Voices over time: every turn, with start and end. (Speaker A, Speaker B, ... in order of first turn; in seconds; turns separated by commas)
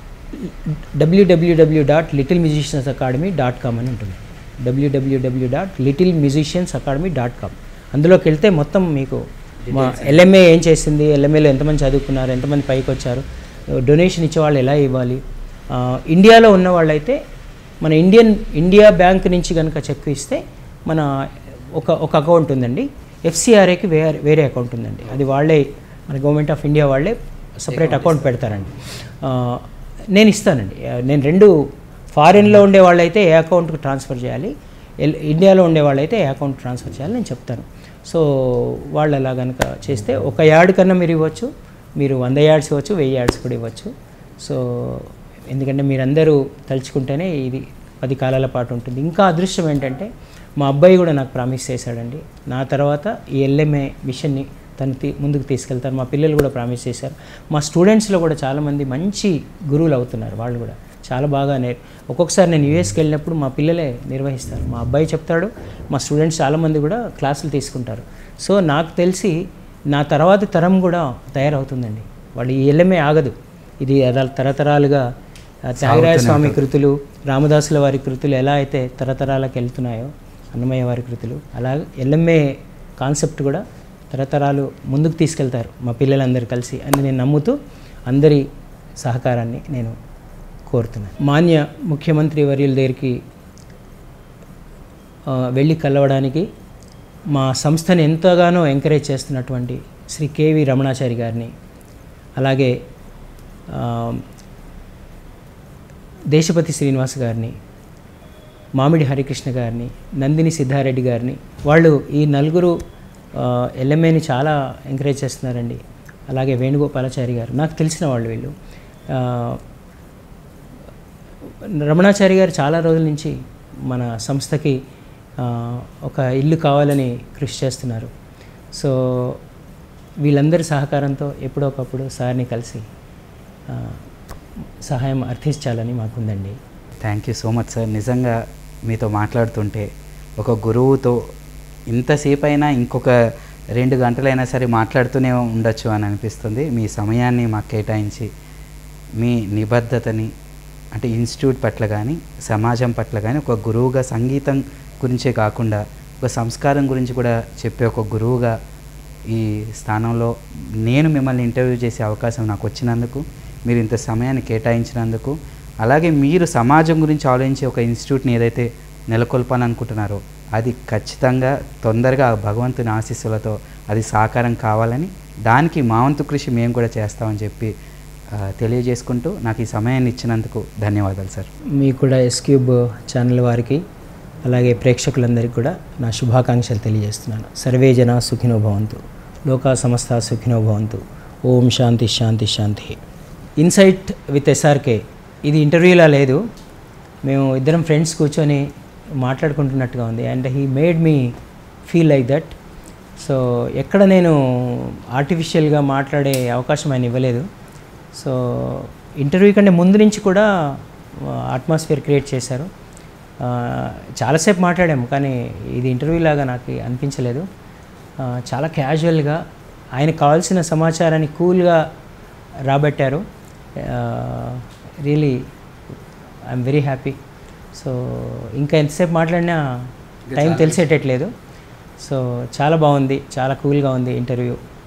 Speaker A: 0.3-17.2, Speaker B: 9.7-10.2, Speaker A: 17.8-21.1, Speaker A: 21.7-31.6, Speaker B: 27.7-28.2, Speaker A: 32.1-75.1, Speaker A: 75.7-87.6, Speaker B: 75.8-76.6, Speaker A: 88.1-88.4, Speaker A: 89.0-89.9, Speaker A: 90.7-93.2, Speaker A: 95.3-96.5, Speaker A: 97.3-101.5, Speaker A: 102.4-102.8, Speaker A: 103.7-104.2, Speaker A: 106.3-107.5, Speaker A: 108.8-112.8, Speaker A: 113.3-118.5, Speaker A: 119.1-119.6, Speaker A: 121.6-124.8, Speaker A: 125.4-128.1, Speaker A: 128.7-129.4, Speaker A: 130.2-132.8, Speaker A: 133.7-134.0, Speaker A: 134.8-136.6, Speaker B: 137.0-141.3, Speaker B: 141.9-143.1, Speaker B: 143.8-148.3, Speaker B: 149.2-150.3, Speaker B: 150.9-158.5, Speaker B: 159.3-177.7, Speaker B: 178.3-181.5, Speaker A: 181.8-183.8, Speaker A: 184.4-193.0, Speaker A: 193.6-196.4, Speaker A: 197.2-198.7, Speaker A: 199.2-201.3, Speaker A: 201.9-202.6, Speaker A: 203.2-207.5, Speaker A: 208.1-212.7, Speaker A: 213.4-217.4, Speaker A: 218.2-219.4, Speaker A: 220.0-221.8, Speaker A: 222.7-223.2, Speaker A: 223.8-225.4, Speaker A: 226.5-227.2, Speaker A: 227.7-231.3, Speaker B: 230.3-230.8, Speaker A: 232.0-234.6